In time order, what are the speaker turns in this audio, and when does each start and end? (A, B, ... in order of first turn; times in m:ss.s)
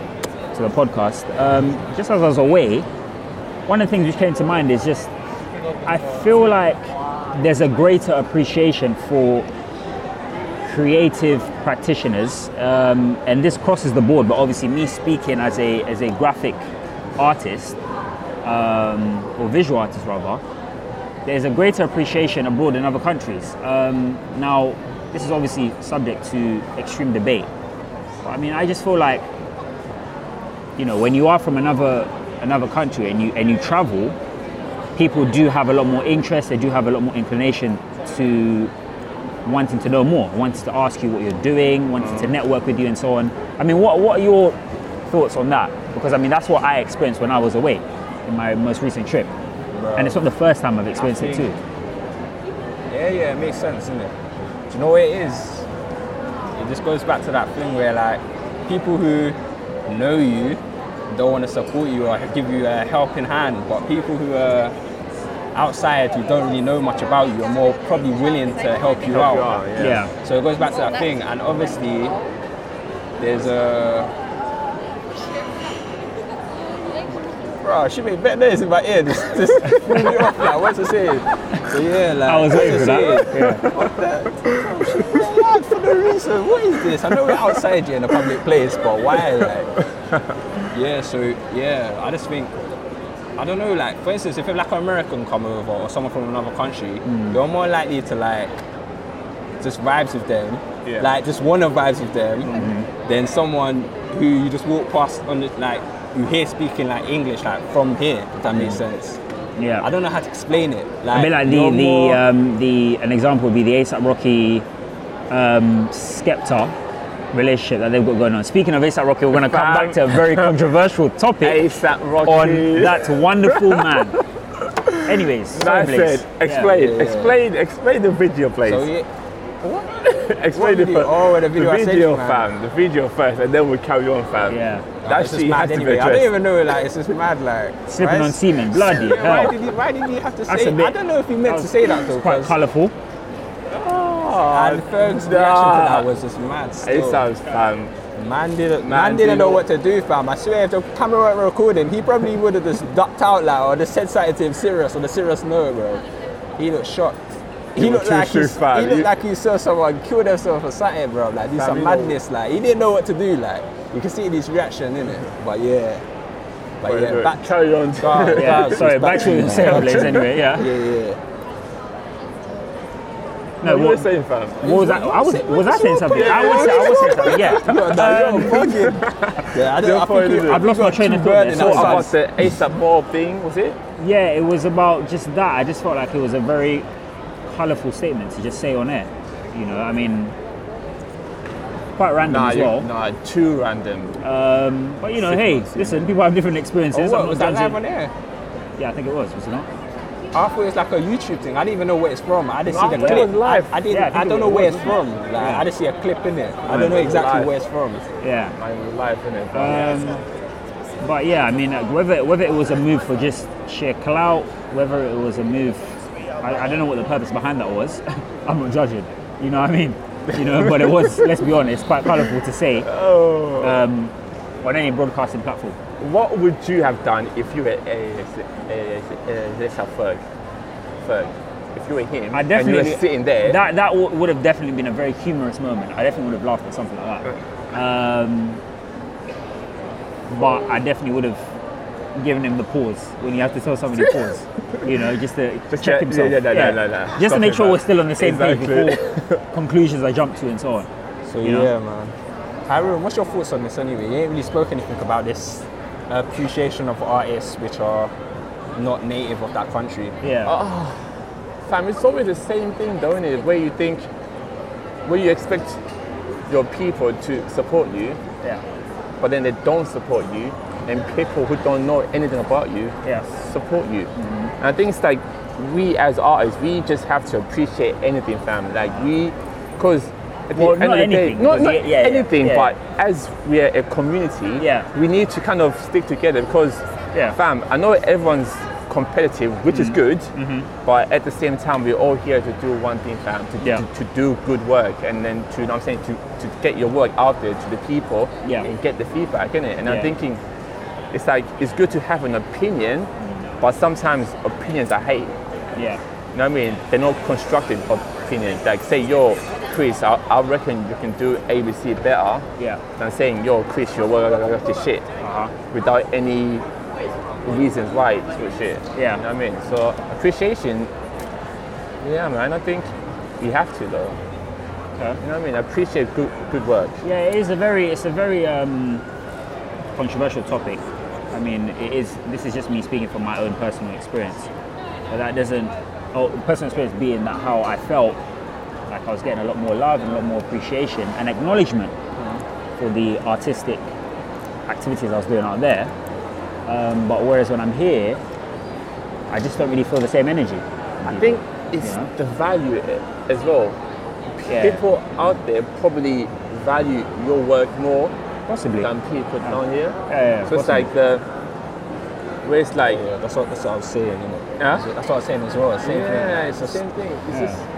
0:00.5-0:02.9 A
0:03.7-0:05.1 A
0:05.8-0:09.5 A
0:10.6-0:16.7 A
0:17.2-0:17.8 A
0:18.4-0:20.4 A
0:21.2-0:27.5 A
0:28.2-0:29.3 A
0:30.8-0:34.2 A
0:35.0-0:38.7 A
0:39.4-0:44.6 A
0:42.0-0:42.3 B
0:45.1-0:49.3 A
0:49.7-0:50.3 C
0:50.0-0:51.6 A
0:51.0-0:51.5 C
0:52.9-0:54.1 C
0:54.7-0:55.7 C
0:56.6-1:04.8 C
1:05.5-1:09.5 C
1:09.0-1:10.1 B
1:09.8-1:10.1 A
1:10.2-1:12.2 C
1:13.2-1:14.1 C
1:17.6-1:29.7 C
1:22.3-1:23.6 A
1:22.6-1:23.8 B
1:24.5-1:25.3 B
1:27.1-1:27.6 B
1:30.7-1:32.5 C
1:33.4-1:38.6 C
1:37.0-1:37.4 A
1:39.6-1:49.2 C
1:40.8-1:41.1 B
1:42.5-1:42.9 A
1:48.4-1:48.8 A
1:49.6-1:49.9 A
1:49.8-1:52.2 C
1:51.1-1:54.7 A
1:55.3-1:56.8 A
1:57.3-2:01.7 A
1:59.3-2:00.6 B
2:01.4-2:08.9 B
2:02.2-2:04.2 A
2:05.0-2:06.7 A
2:06.7-2:07.4 C
2:08.6-2:09.1 C
2:09.6-2:09.9 C
2:10.0-2:16.3 B
2:10.5-2:12.5 C
2:14.5-2:14.9 A
2:15.0-2:22.6 C
2:17.9-2:19.6 A
2:20.5-2:22.9 A
2:23.7-2:26.1 B
2:24.5-2:27.3 C
2:26.8-2:28.0 B
2:28.2-2:36.0 C
2:28.8-2:29.6 B
2:36.6-2:46.0 C
2:37.8-2:39.1 B
2:41.5-2:42.2 B
2:46.8-2:51.2 C
2:46.8-2:50.1 B
2:48.3-2:50.7 A
2:53.6-2:54.1 A
2:53.6-2:54.7 B
2:54.6-2:58.9 A
2:54.6-3:02.1 C
2:56.1-3:00.7 B
3:00.5-3:02.1 A
3:01.5-3:03.8 B
3:04.0-3:06.9 A
3:07.4-3:10.4 A
3:12.0-3:12.9 A
3:12.3-3:14.2 B
3:14.2-3:17.8 A
3:15.1-3:16.2 B
3:16.9-3:18.1 C
3:18.8-3:19.7 A
3:20.3-3:28.1 C
3:22.7-3:23.8 B
3:22.9-3:23.3 A
3:23.9-3:25.7 A
3:26.7-3:27.5 B
3:28.2-3:28.6 A
3:28.6-3:30.0 B
3:29.5-3:30.2 A
3:31.0-3:42.9 A
3:40.4-3:41.3 B
3:42.8-3:43.9 B
3:43.6-3:45.8 A
3:46.0-3:50.2 B
3:51.0-3:53.6 B
3:52.3-3:58.6 A
4:00.3-4:01.4 A
4:02.2-4:10.9 A
4:05.7-4:09.4 B
4:11.3-4:12.1 C
4:11.4-4:11.7 A
4:12.7-4:18.1 C
4:18.8-4:20.2 C
4:20.2-4:20.6 A
4:20.4-4:21.0 B
4:21.7-4:24.1 B
4:25.1-4:25.8 B
4:26.5-4:28.2 B
4:29.2-5:00.4 B
4:34.2-4:34.5 A
4:40.5-4:42.8 A
4:44.6-4:44.9 A
4:49.7-4:50.7 A
4:58.4-4:58.7 A
4:59.8-5:00.2 A
5:01.1-5:05.4 B
5:06.3-5:12.5 B
5:13.0-5:15.1 B
5:15.2-5:15.5 A
5:15.7-5:16.7 B
5:17.4-5:20.9 B
5:19.0-5:19.2 A
5:22.0-5:24.2 B
5:25.2-5:27.0 B
5:27.0-5:29.0 A
5:30.0-5:34.5 A
5:35.1-5:38.2 A
5:38.9-5:41.9 A
5:42.2-5:42.4 B
5:42.8-5:43.9 A
5:44.7-5:45.9 A
5:46.7-5:48.2 A
5:49.3-5:52.1 A
5:51.0-5:53.8 B
5:54.4-5:58.1 B
5:54.5-5:54.8 A
5:58.5-5:58.9 A
5:58.8-6:01.2 B
5:59.4-6:00.9 A
6:02.4-6:03.0 B
6:02.8-6:06.8 C
6:05.8-6:07.6 B
6:07.3-6:07.6 A